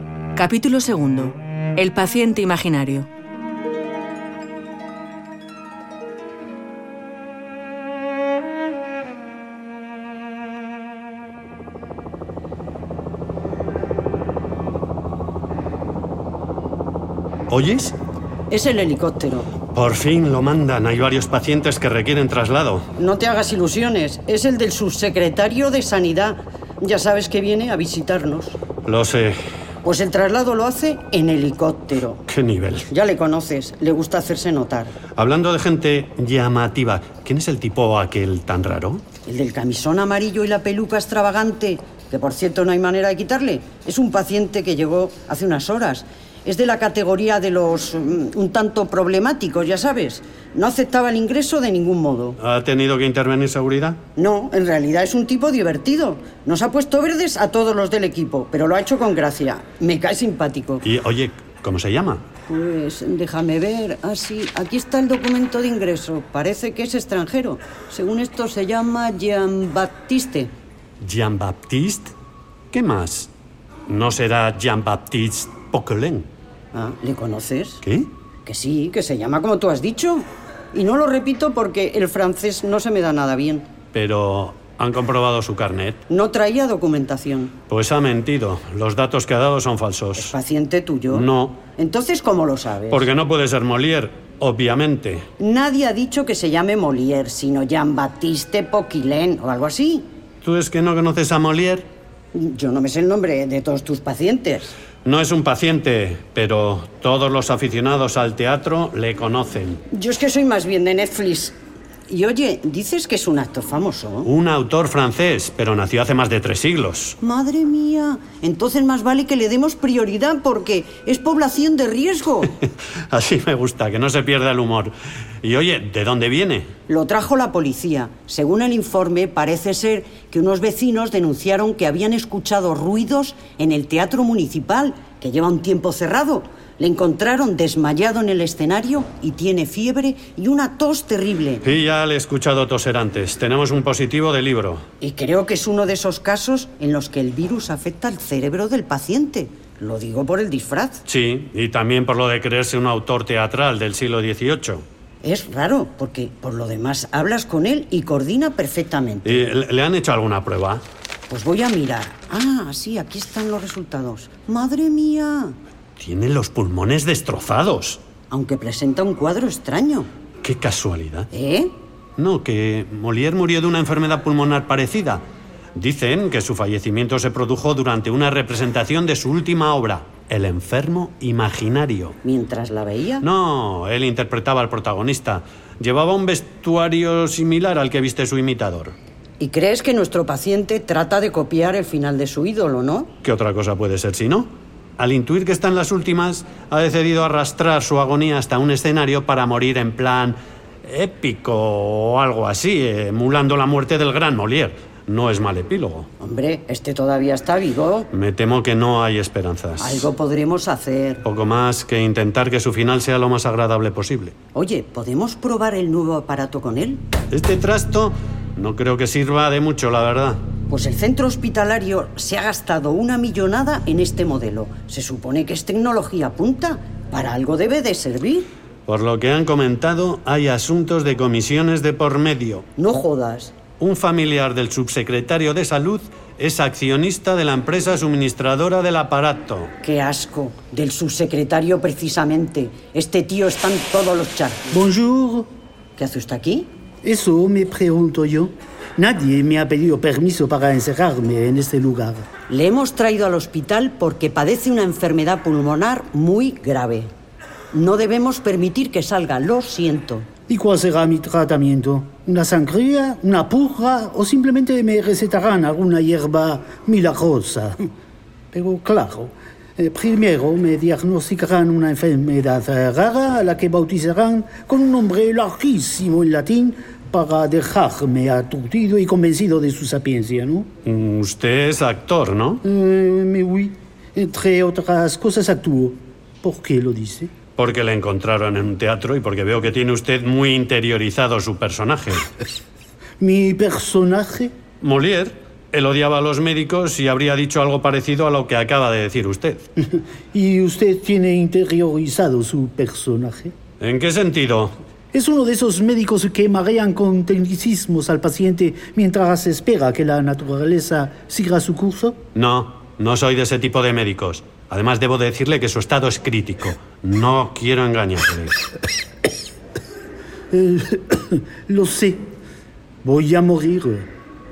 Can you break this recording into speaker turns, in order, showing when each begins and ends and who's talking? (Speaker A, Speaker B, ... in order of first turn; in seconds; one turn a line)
Speaker A: 0.3-3.1
Speaker B: 17.5-17.9
Speaker C: 18.5-19.5
Speaker B: 19.7-22.8
Speaker C: 23.0-28.6
Speaker B: 28.8-29.4
Speaker C: 29.8-32.2
Speaker B: 32.3-32.9
Speaker C: 32.9-34.9
Speaker B: 35.1-39.0
Speaker C: 39.2-52.4
Speaker B: 52.4-54.0
Speaker C: 54.1-60.8
Speaker B: 60.8-62.2
Speaker C: 62.5-70.5
Speaker B: 71.0-72.1
Speaker B: 72.7-73.3
Speaker B: 73.9-76.3
Speaker C: 76.7-77.8
Speaker B: 77.8-78.1
Speaker C: 78.4-83.7
Speaker B: 83.9-86.0
Speaker C: 86.1-87.5
Speaker B: 87.7-90.3
Speaker C: 90.2-93.1
Speaker B: 91.1-91.6
Speaker B: 92.9-95.3
Speaker C: 95.4-100.1
Speaker B: 100.4-101.9
Speaker C: 102.3-104.7
Speaker B: 105.0-109.8
Speaker C: 109.9-111.5
Speaker C: 112.1-114.3
Speaker B: 114.2-117.2
Speaker C: 117.2-122.5
Speaker B: 123.1-126.7
Speaker C: 126.9-141.6
Speaker B: 141.6-144.8
Speaker C: 145.0-151.0
Speaker B: 151.1-154.8
Speaker C: 155.2-159.5
Speaker B: 159.2-160.8
Speaker C: 161.3-165.5
Speaker B: 166.0-168.0
Speaker C: 168.3-170.1
Speaker B: 170.4-171.3
Speaker C: 171.3-171.7
Speaker B: 172.2-175.2
Speaker B: 175.7-182.2
Speaker C: 182.2-183.2
Speaker B: 183.2-188.9
Speaker C: 189.4-193.1
Speaker B: 193.2-206.1
Speaker C: 206.2-208.1
Speaker B: 208.1-210.1
Speaker C: 209.8-211.2
Speaker B: 211.2-214.3
Speaker C: 214.5-217.0
Speaker B: 217.3-220.4
Speaker C: 220.7-228.5
Speaker B: 228.9-232.7
Speaker C: 232.8-233.6
Speaker B: 233.8-239.7
Speaker C: 239.8-244.7
Speaker D: 244.7-245.5
Speaker C: 246.0-246.7
Speaker D: 247.0-252.3
Speaker C: 252.5-257.1
Speaker C: 257.7-260.3
Speaker D: 260.5-267.8
Speaker D: 268.5-280.7
Speaker B: 280.8-282.6
Speaker D: 282.6-287.3
Speaker B: 287.6-292.2
Speaker D: 293.2-294.5
Speaker B: 294.8-299.6
Speaker D: 299.8-303.5
Speaker B: 303.8-304.7
Speaker D: 305.1-312.2
Speaker B: 312.3-318.6
Speaker D: 320.5-322.2
Speaker D: 323.0-324.1